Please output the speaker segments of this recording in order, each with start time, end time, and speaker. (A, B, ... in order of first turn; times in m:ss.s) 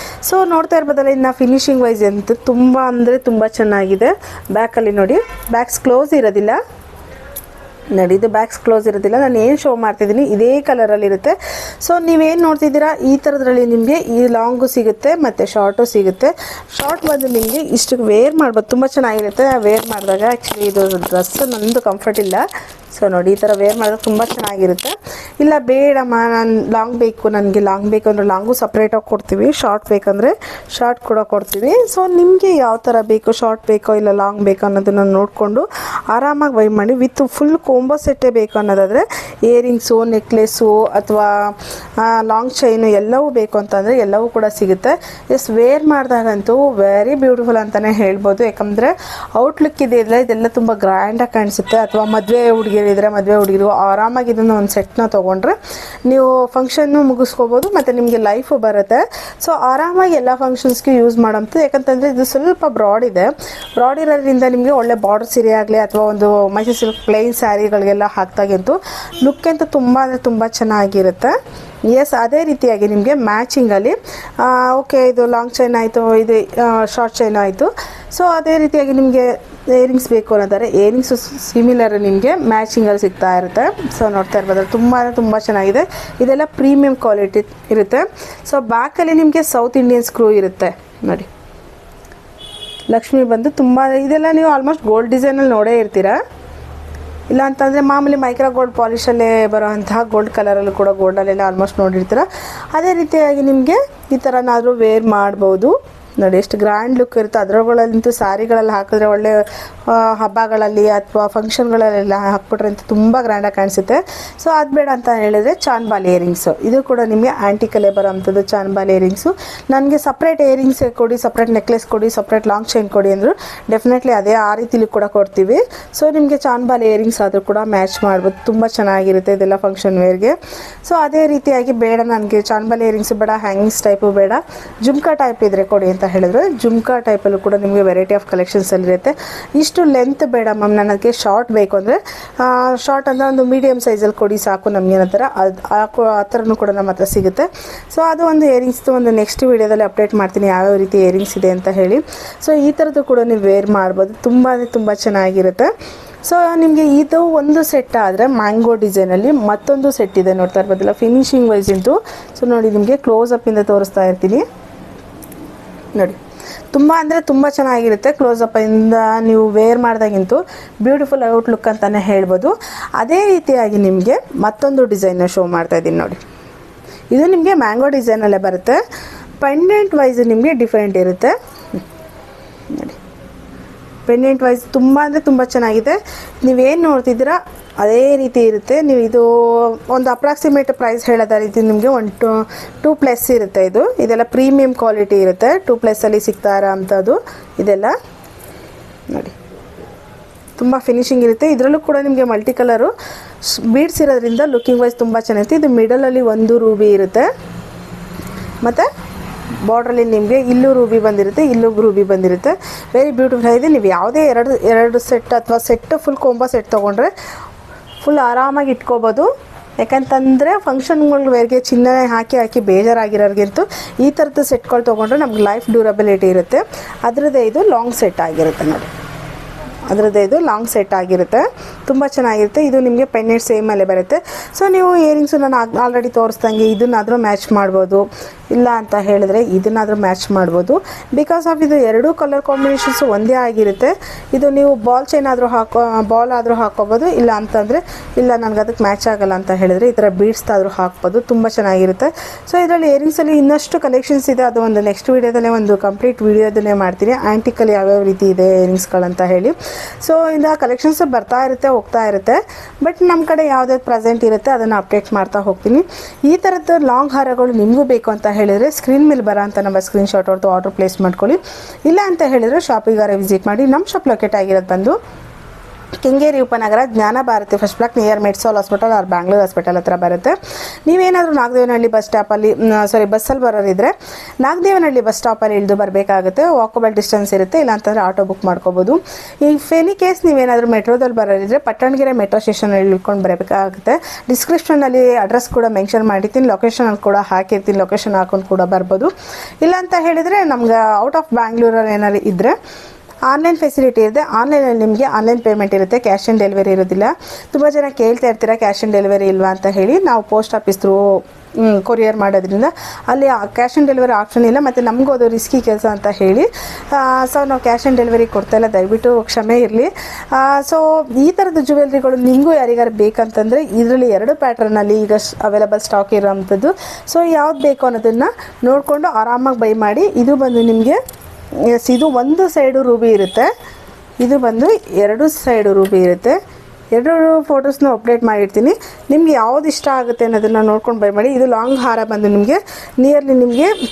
0:00.2-0:06.6 A
0:07.9-1:11.4 A
1:11.9-1:31.3 A
1:32.9-1:36.2 A
1:37.3-2:35.7 A
2:36.2-2:44.4 A
2:46.7-2:56.2 A
2:57.1-2:58.8 A
2:59.4-3:01.3 A
3:02.7-3:03.0 A
3:04.0-3:17.9 A
3:20.6-3:22.9 A
3:23.5-3:27.3 A
3:28.6-3:28.9 A
3:29.6-3:37.1 A
3:38.0-3:48.9 A
3:49.9-4:35.0 A
4:36.0-4:40.3 A
4:40.8-5:02.6 A
5:03.3-5:31.0 A
5:31.6-5:33.5 A
5:34.2-5:36.4 A
5:36.9-5:43.7 A